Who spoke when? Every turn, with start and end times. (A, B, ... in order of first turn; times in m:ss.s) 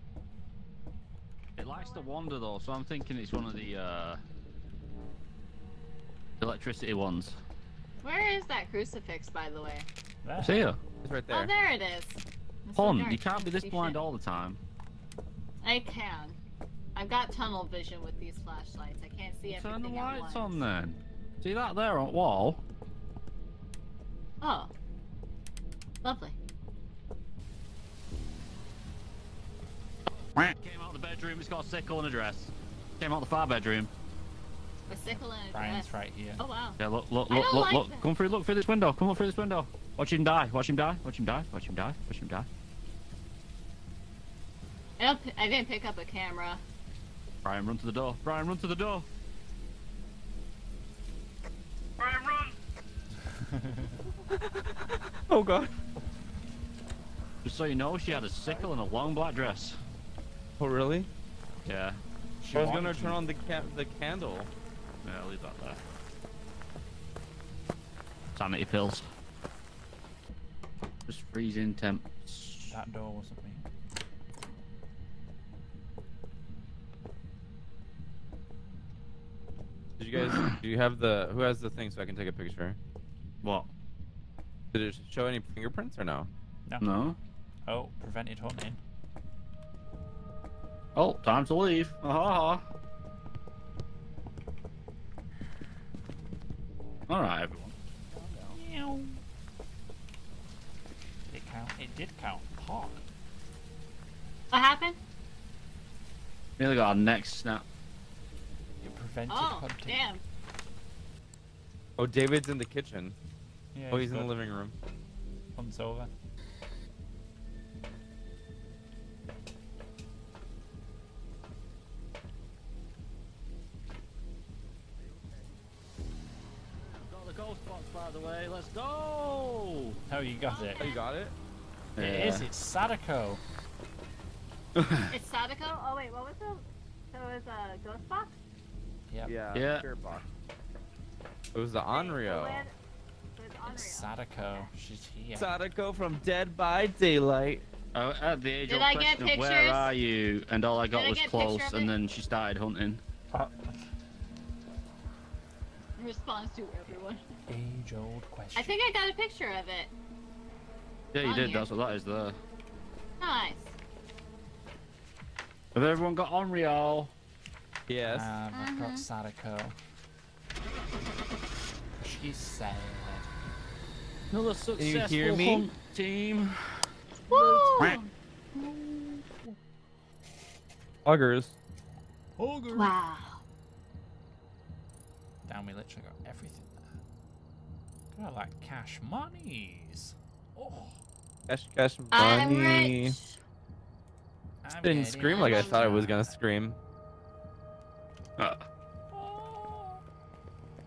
0:01.6-0:04.2 A
0:01.8-0:02.1 B
0:06.4-0:07.4 A
0:08.0-0:09.9 B
0:10.2-0:10.7 C
0:10.4-0:10.8 A
0:11.0-0:11.5 D
0:11.3-0:14.0 B
0:12.8-0:14.6 A
0:15.6-0:16.4 B
0:17.0-0:20.6 B
0:19.5-0:22.6 A
0:24.4-0:24.7 B
0:26.0-0:26.4 B
0:30.1-0:33.9 A
0:34.9-0:38.1 B
0:35.1-0:36.4 C
0:36.8-0:42.5 A
0:45.0-0:46.6 B
0:47.4-0:49.1 A
0:52.0-0:52.6 A
0:53.3-0:54.0 C
0:54.2-0:55.7 D
0:57.4-0:59.8 A
1:00.6-1:01.1 D
1:01.6-1:02.0 A
1:02.4-1:03.2 C
1:02.5-1:04.5 D
1:05.0-1:05.8 A
1:08.3-1:09.1 A
1:11.1-1:12.8 A
1:12.7-1:13.6 C
1:20.0-1:22.8 D
1:20.3-1:20.6 A
1:23.4-1:23.7 A
1:24.7-1:26.3 D
1:26.7-1:26.9 C
1:26.8-1:27.2 A
1:27.7-1:28.8 C
1:31.0-1:32.6 A
1:37.1-1:37.8 A
1:38.2-1:38.5 D
1:38.5-1:39.2 C
1:41.3-1:43.0 C
1:44.5-1:45.0 B
1:46.6-1:47.6 A
1:48.8-1:50.0 C
1:49.3-1:50.2 B
1:52.0-1:53.2 D
1:53.7-1:54.4 C
1:53.9-1:54.8 D
1:55.6-1:56.1 C
2:06.9-2:10.0 A
2:10.1-2:10.9 C
2:10.5-2:11.1 B
2:10.8-2:11.4 D
2:12.0-2:12.5 A
2:12.0-2:13.4 C
2:14.8-2:15.1 A
2:15.1-2:18.3 B
2:19.1-2:19.4 C
2:19.3-2:20.2 D
2:19.5-2:19.9 A
2:21.5-2:22.7 D
2:21.9-2:22.7 B
2:23.4-2:24.7 B
2:23.7-2:25.5 C
2:25.4-2:27.7 D
2:27.9-2:33.0 A
2:28.7-2:29.9 B
2:30.9-2:31.9 B
2:33.3-2:33.8 C
2:36.0-2:37.2 B
2:37.5-2:38.8 C
2:38.6-2:39.9 B
2:41.1-2:42.4 A
2:41.2-2:41.7 B
2:43.2-2:43.8 B
2:45.7-2:47.1 A
2:47.9-2:48.4 D
2:48.0-2:49.8 C
2:48.5-2:49.1 B
2:52.0-2:53.3 C
2:54.3-2:56.9 A
2:54.8-2:55.7 D
2:57.3-2:58.0 C
2:57.3-2:58.1 B
2:58.5-2:59.6 C
3:01.0-3:01.6 D
3:02.4-3:02.9 C
3:02.7-3:03.4 B
3:05.4-3:06.9 C
3:08.1-3:11.0 C
3:11.5-3:13.2 D
3:12.1-3:13.4 B
3:14.6-3:16.4 C
3:14.8-3:16.8 D
3:15.3-3:15.8 B
3:18.4-3:18.6 A
3:19.1-3:20.0 C